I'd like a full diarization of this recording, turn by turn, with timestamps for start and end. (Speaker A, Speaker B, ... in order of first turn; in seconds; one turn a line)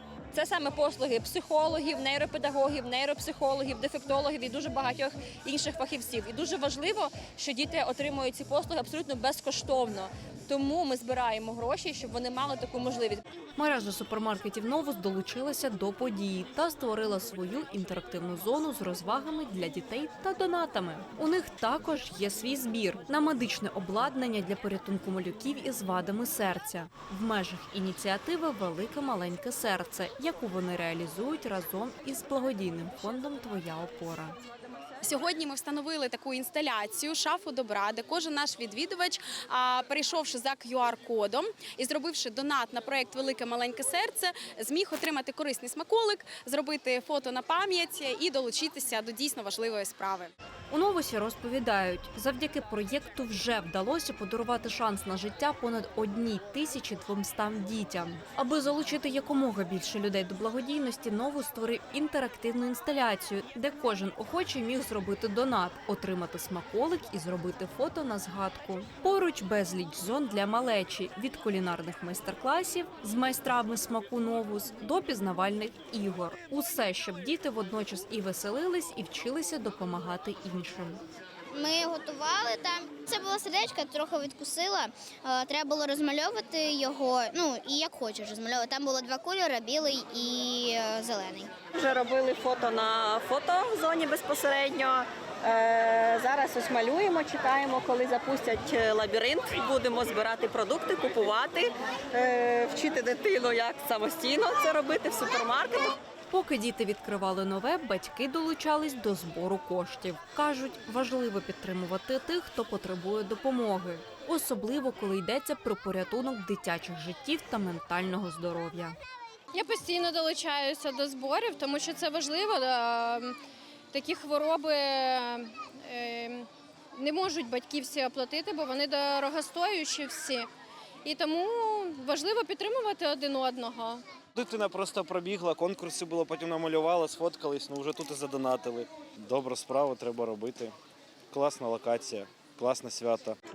Speaker A: 0.3-13.2
Speaker B: 13.6-34.4
Speaker C: 35.0-50.3
Speaker B: 50.7-81.0
Speaker D: 81.5-91.5
Speaker A: 91.8-106.0
Speaker B: 106.3-119.0
Speaker E: 119.5-123.4
Speaker E: 123.9-130.5
Speaker E: 131.1-134.0
Speaker F: 134.3-140.7
Speaker F: 141.3-143.4